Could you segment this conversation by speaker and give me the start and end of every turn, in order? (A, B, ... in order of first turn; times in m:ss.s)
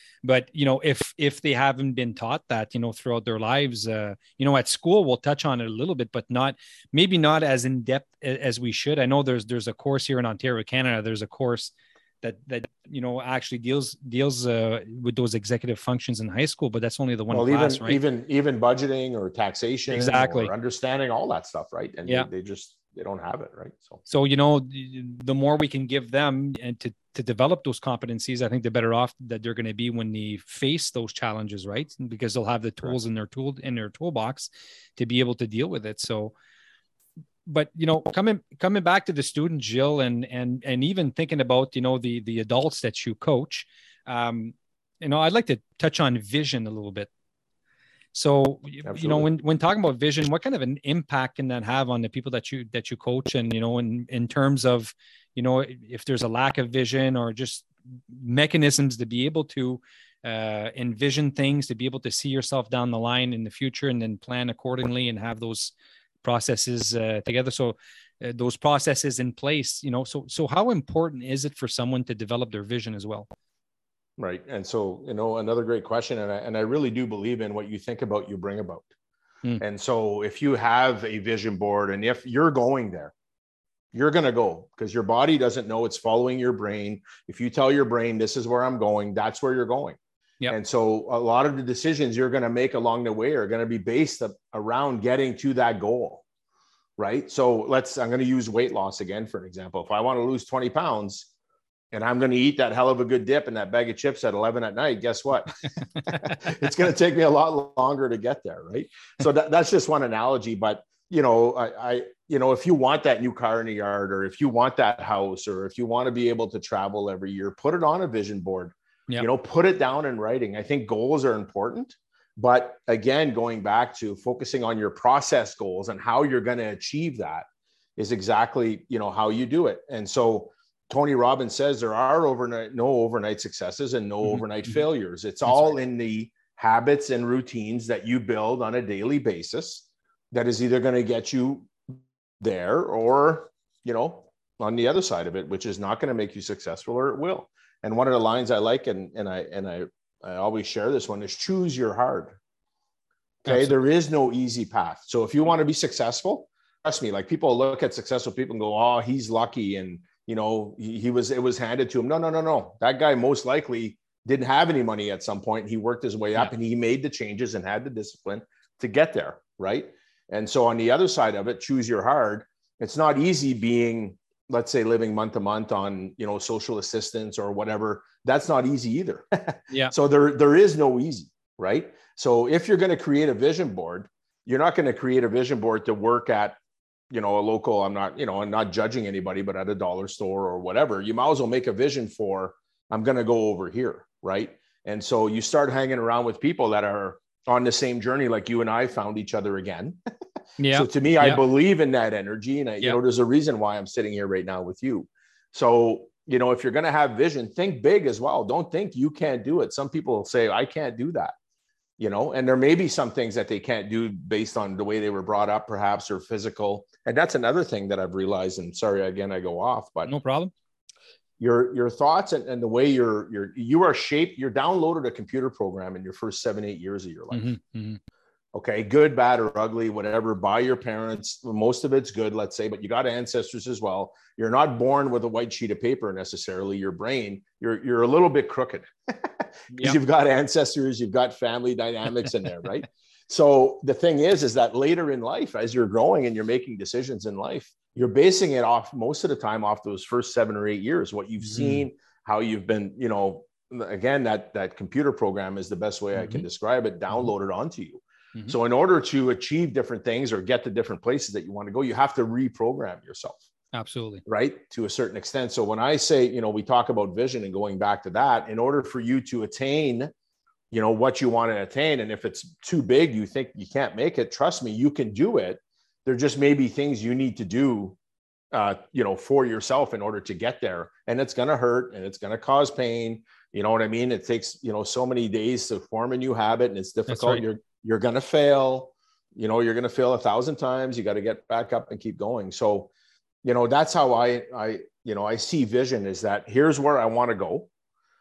0:00.2-0:18.0 A
0:17.3-0:24.0 B
0:19.9-0:20.5 A
0:24.1-0:34.4 A
0:35.0-0:36.3 A
0:37.4-0:47.1 A
0:48.1-1:13.3 A
0:48.8-0:49.3 B
1:14.2-1:18.9 B
1:19.6-1:23.1 B
1:23.9-1:30.0 B
1:30.5-1:36.2 B
1:37.0-1:41.3 B
1:41.9-2:07.4 B
2:08.0-2:32.4 B
2:14.2-2:14.8 A
2:33.4-3:06.6 B
2:33.5-2:33.7 A
3:07.1-3:20.0 B
3:20.6-3:21.4 A
3:20.7-3:31.3 B
3:32.0-3:40.1 B
3:40.0-3:40.5 A
3:41.4-3:47.5 B
3:47.3-3:48.0 A
3:48.5-4:23.4 B
3:59.7-4:00.0 A
4:11.4-4:11.8 A
4:16.2-4:16.4 A
4:23.7-4:24.2 A
4:24.2-4:30.1 B
4:30.7-4:38.0 B
4:38.5-4:52.9 B
4:47.1-4:47.4 A
4:53.4-4:57.7 B